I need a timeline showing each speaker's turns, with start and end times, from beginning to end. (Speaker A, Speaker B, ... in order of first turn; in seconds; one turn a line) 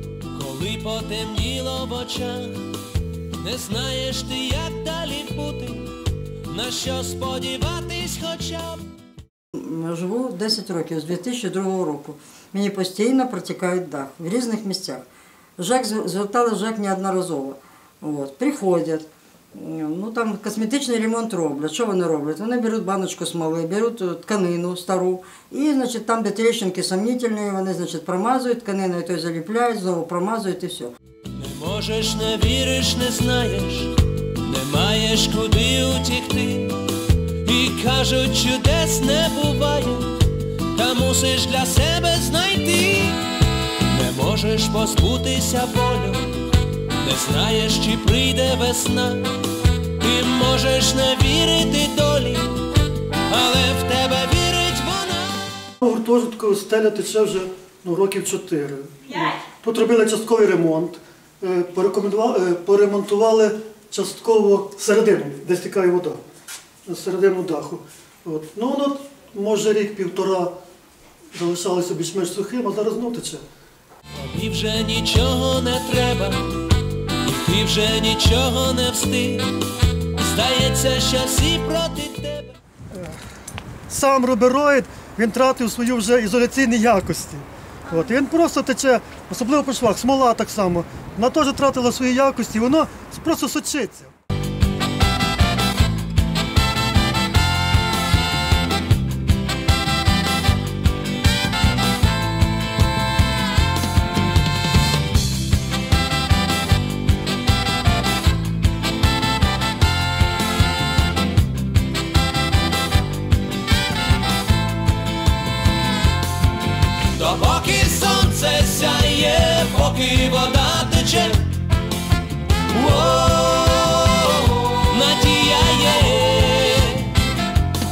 Speaker A: 0.3-2.6
Speaker A: 3.4-6.0
Speaker A: 6.5-8.8
Speaker B: 9.5-15.1
Speaker B: 15.6-30.9
Speaker A: 31.3-36.8
Speaker A: 37.4-40.2
Speaker A: 40.7-43.3
Speaker A: 43.9-46.3
Speaker A: 47.0-49.3
Speaker A: 50.0-52.6
Speaker A: 53.3-55.5
Speaker C: 55.8-66.2
Speaker C: 66.8-70.5
Speaker C: 71.3-73.4
Speaker A: 74.2-76.6
Speaker A: 77.2-79.5
Speaker A: 80.1-82.5
Speaker C: 83.9-94.1
Speaker A: 117.1-121.5
Speaker A: 122.7-127.2